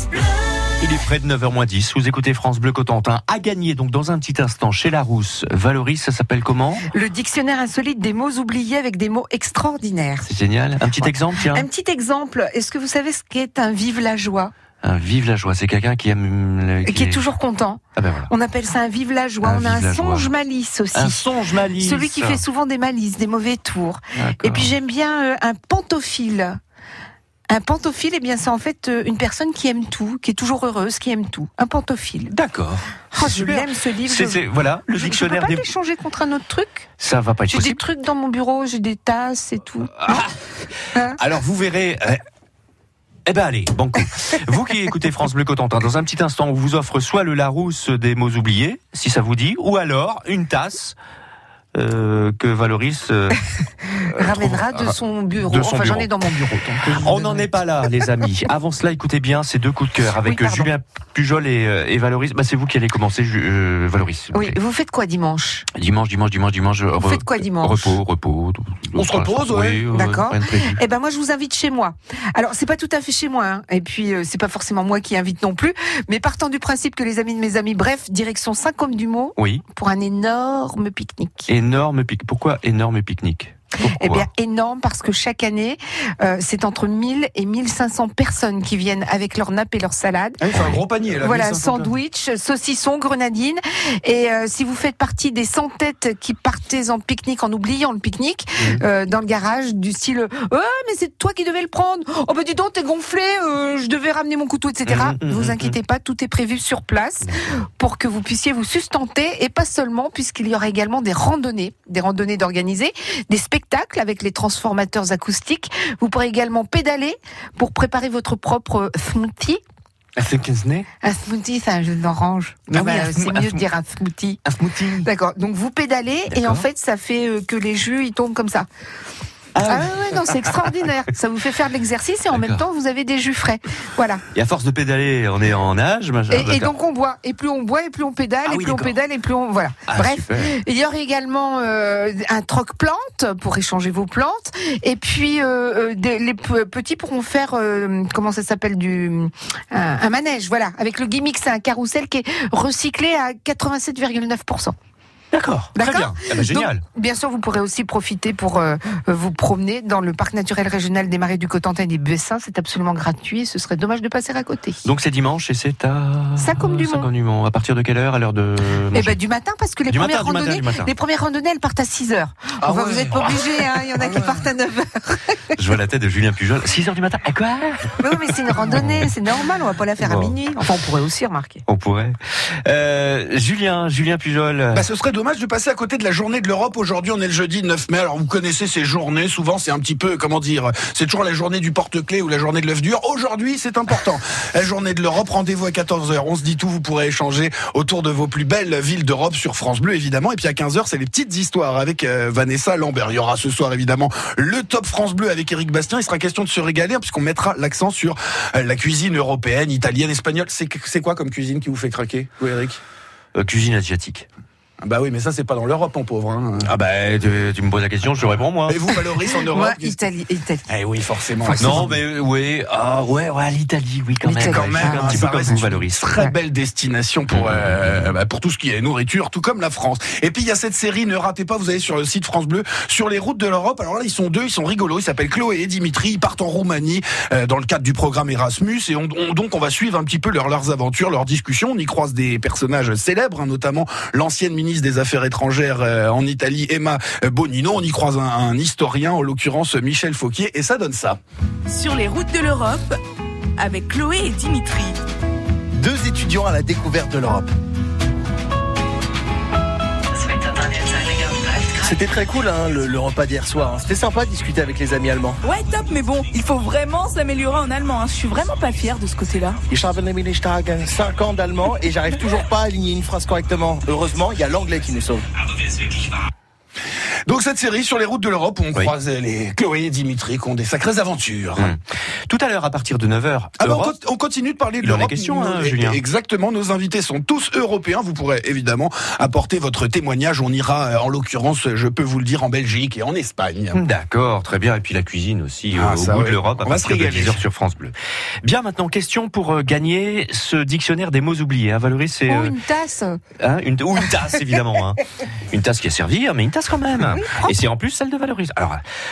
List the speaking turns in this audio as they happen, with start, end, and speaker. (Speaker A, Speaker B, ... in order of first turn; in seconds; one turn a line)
Speaker A: 0.8-6.9
Speaker B: 6.9-10.3
Speaker A: 10.3-11.7
Speaker B: 11.0-14.5
Speaker A: 14.8-17.2
Speaker B: 16.9-26.6
Speaker A: 18.0-18.3
Speaker A: 19.4-20.3
Speaker A: 20.9-22.4
Speaker A: 24.1-24.7
Speaker B: 27.5-32.3
Speaker A: 32.3-35.7
Speaker B: 33.1-36.9
Speaker A: 37.0-37.8
Speaker B: 37.5-40.2
Speaker A: 40.0-40.4
Speaker A: 40.9-42.2
Speaker A: 43.3-51.0
Speaker A: 51.8-53.4
Speaker B: 54.0-57.5
Speaker A: 54.1-56.1
Speaker A: 56.8-64.6
Speaker B: 60.2-60.7
Speaker B: 64.3-65.7
Speaker A: 65.8-70.8
Speaker B: 67.0-68.0
Speaker C: 69.0-69.8
Speaker B: 69.9-81.5
Speaker A: 79.4-79.6
Speaker A: 81.5-84.3
Speaker B: 83.8-90.4
Speaker C: 90.4-91.9
Speaker A: 90.5-90.8
Speaker B: 91.2-119.6
Speaker A: 98.6-98.8
Speaker A: 104.9-105.8
Speaker A: 120.2-120.9
Speaker B: 121.0-124.4
Speaker A: 122.7-123.6
Speaker A: 124.5-125.1
Speaker B: 125.0-128.7
Speaker A: 126.3-126.7
Speaker A: 129.6-130.6
Speaker B: 129.6-134.2
Speaker A: 132.3-132.6
Speaker A: 134.3-136.7
Speaker B: 136.3-154.8
Speaker A: 138.4-138.9
Speaker A: 139.9-140.5
Speaker A: 155.3-156.8
Speaker B: 155.8-164.8
Speaker A: 164.8-169.2
Speaker B: 166.4-167.1
Speaker B: 168.9-175.6
Speaker A: 169.9-170.9
Speaker D: 172.8-173.4
Speaker A: 175.6-179.1
Speaker B: 178.0-181.6
Speaker A: 180.0-180.4
Speaker A: 181.7-184.9
Speaker C: 184.7-212.8
Speaker A: 213.3-214.2
Speaker C: 214.8-216.7
Speaker A: 216.6-218.8
Speaker C: 218.7-220.0
Speaker B: 218.9-220.7
Speaker C: 220.7-221.9
Speaker B: 221.5-221.9
Speaker A: 221.6-226.2
Speaker B: 224.2-225.6
Speaker C: 224.4-251.2
Speaker E: 251.7-253.0
Speaker E: 253.6-255.0
Speaker D: 255.8-257.5
Speaker D: 261.7-265.4
Speaker E: 265.4-269.6
Speaker D: 269.7-275.3
Speaker C: 277.3-281.7
Speaker A: 281.6-284.0
Speaker C: 283.6-293.8
Speaker A: 284.8-286.0
Speaker A: 293.7-302.6
Speaker C: 295.7-297.4
Speaker B: 302.3-303.2
Speaker A: 303.4-308.8
Speaker B: 307.1-307.6